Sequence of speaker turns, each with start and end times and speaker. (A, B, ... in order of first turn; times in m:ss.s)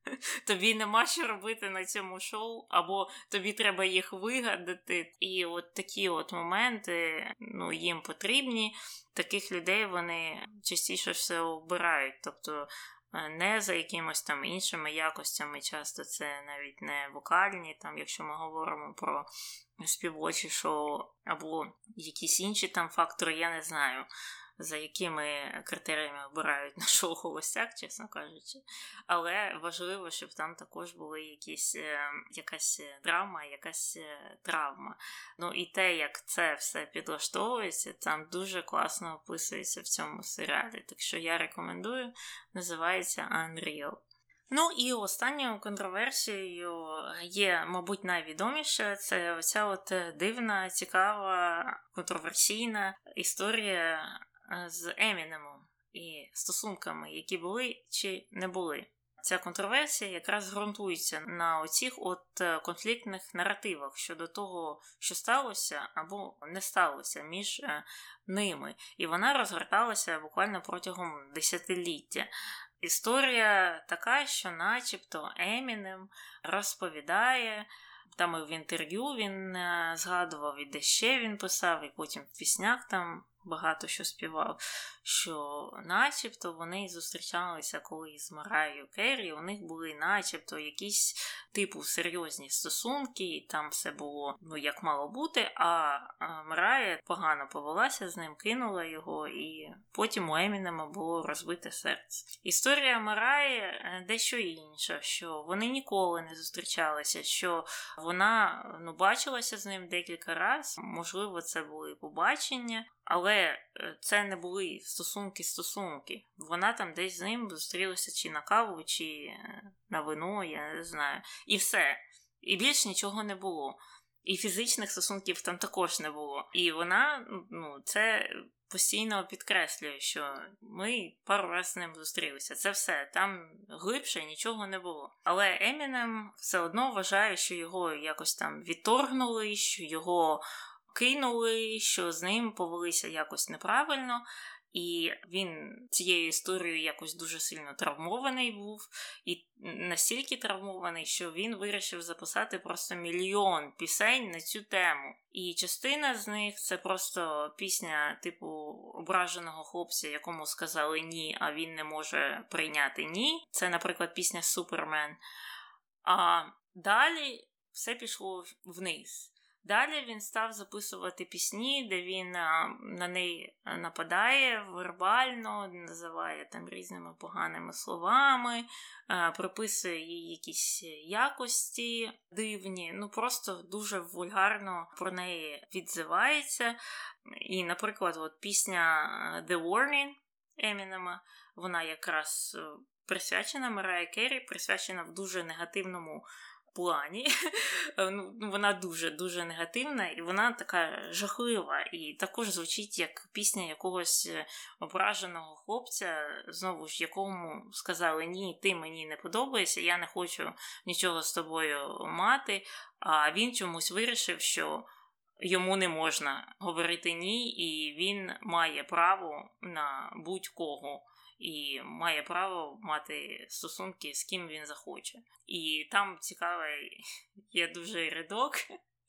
0:00.4-0:19.3 A
0:19.8-0:24.1 A
0:24.6-1:12.3 A
1:12.8-1:59.4 A
1:59.9-2:45.2 A
2:46.0-3:06.8 A
3:07.3-3:17.3 A
3:18.0-3:34.9 A
3:35.4-3:47.0 A
3:47.5-3:48.6 A